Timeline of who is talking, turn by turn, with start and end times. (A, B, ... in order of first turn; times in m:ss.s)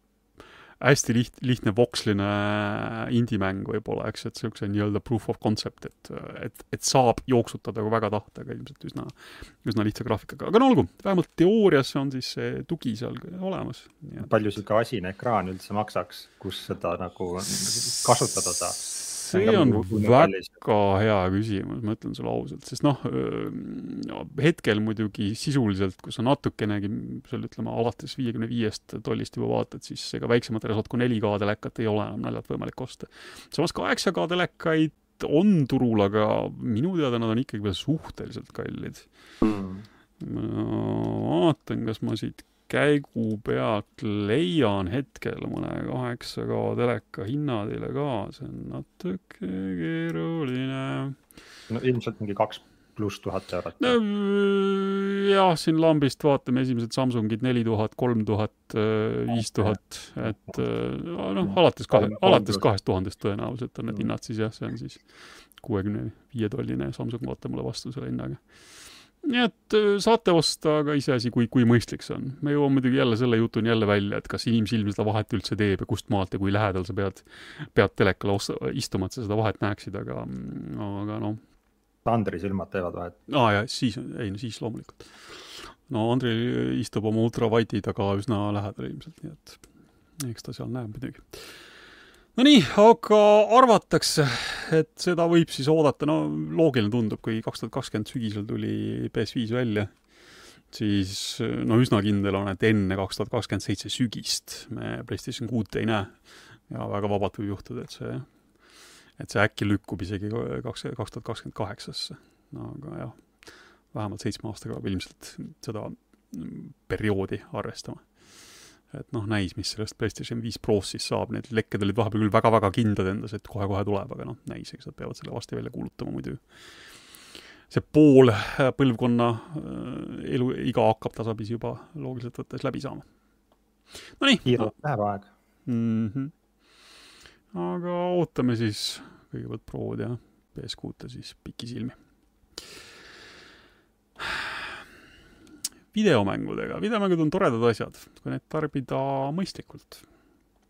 0:00.8-0:14.3 A
0:14.2-0:20.5 B
0:17.6-0:39.1 A
0:39.4-0:39.8 B
0:40.2-0:51.2 A
0:51.7-0:54.0 B
0:53.8-1:21.4 A
0:59.3-1:00.6 B
1:01.4-1:02.6 B
1:22.0-1:23.2 B
1:23.3-1:25.1 A
1:25.8-1:29.6 A
1:30.2-1:31.4 A
1:32.4-1:40.1 A
1:40.7-2:06.4 A
2:07.7-2:13.1 A
2:14.2-2:14.7 A
2:14.4-2:15.3 B
2:15.7-2:16.3 A
2:17.5-2:22.0 A
2:24.2-2:24.5 A
2:25.9-2:30.0 A